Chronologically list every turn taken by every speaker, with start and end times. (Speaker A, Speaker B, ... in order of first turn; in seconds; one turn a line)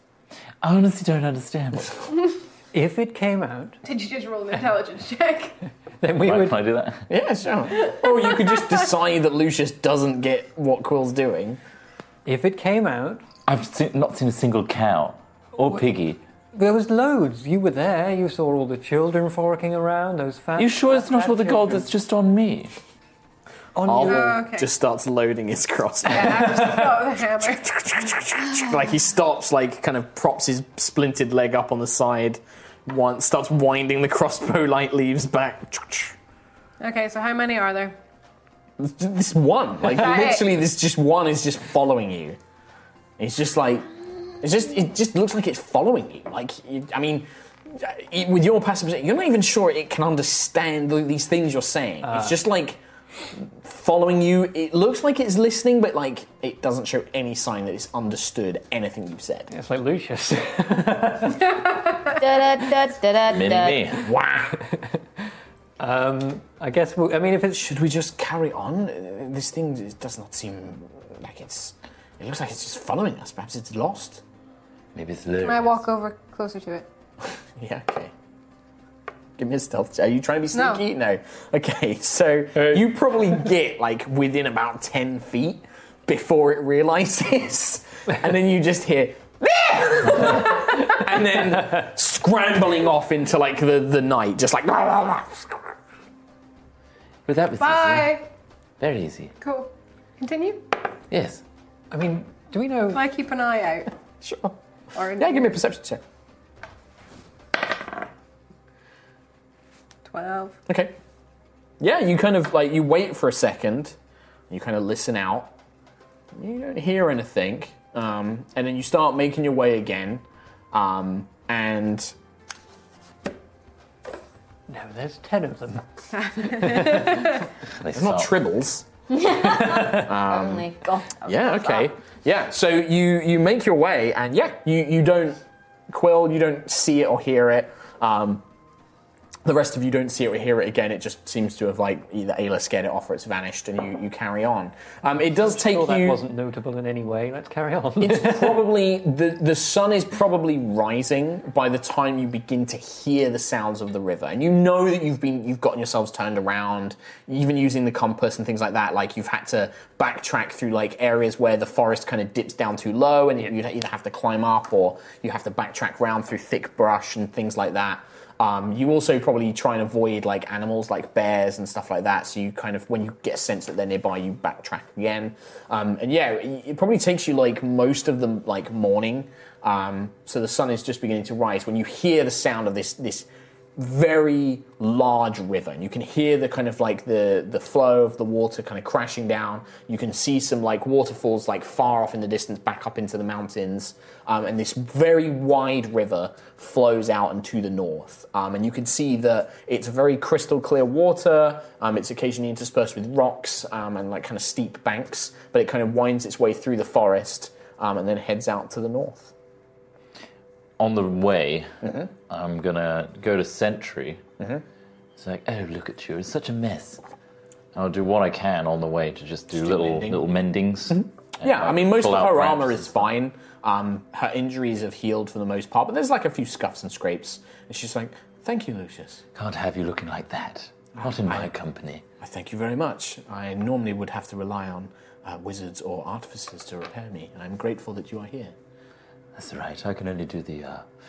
Speaker A: 0.6-2.2
Speaker B: 2.7-3.8
Speaker C: 3.8-5.6
Speaker B: 6.0-6.6
Speaker A: 6.2-7.1
Speaker D: 7.1-11.6
Speaker C: 7.8-8.8
Speaker B: 12.3-13.2
Speaker A: 13.5-16.2
Speaker B: 16.5-21.9
Speaker A: 20.6-22.7
Speaker B: 23.8-24.4
Speaker A: 23.9-24.4
Speaker D: 23.9-36.1
Speaker C: 24.0-24.7
Speaker C: 26.1-27.8
Speaker C: 36.8-38.0
Speaker D: 38.8-42.4
Speaker C: 39.9-40.5
Speaker D: 43.2-43.9
Speaker D: 44.4-52.8
Speaker B: 52.0-52.4
Speaker D: 53.4-59.5
Speaker B: 59.5-61.6
Speaker E: 62.1-63.9
Speaker A: 63.3-64.1
Speaker D: 64.0-64.6
Speaker B: 64.6-65.0
Speaker B: 65.8-67.7
Speaker D: 67.5-74.2
Speaker A: 74.9-75.8
Speaker C: 75.4-76.9
Speaker D: 77.6-78.1
Speaker D: 79.4-95.7
Speaker C: 80.5-80.8
Speaker B: 82.6-82.8
Speaker A: 97.3-98.2
Speaker C: 97.6-98.3
Speaker A: 98.8-99.3
Speaker C: 99.4-100.8
Speaker A: 101.1-101.4
Speaker B: 101.9-103.0
Speaker C: 102.9-103.9
Speaker D: 104.2-104.6
Speaker C: 104.9-105.6
Speaker D: 105.2-106.0
Speaker C: 110.1-110.6
Speaker D: 110.7-110.9
Speaker D: 111.8-114.0
Speaker D: 114.5-115.5
Speaker D: 116.4-122.1
Speaker B: 124.7-127.4
Speaker C: 126.1-127.4
Speaker A: 127.8-128.3
Speaker D: 127.9-138.4
Speaker E: 129.1-131.9
Speaker D: 139.4-146.2
Speaker B: 145.1-148.6
Speaker D: 148.0-209.3
Speaker A: 210.8-211.7
Speaker D: 211.8-212.1
Speaker A: 212.3-214.2
Speaker A: 215.2-217.0
Speaker A: 217.7-223.1
Speaker D: 219.5-220.3
Speaker D: 220.9-229.2
Speaker A: 229.3-232.0
Speaker D: 231.0-231.5
Speaker D: 232.2-238.5
Speaker A: 239.3-240.9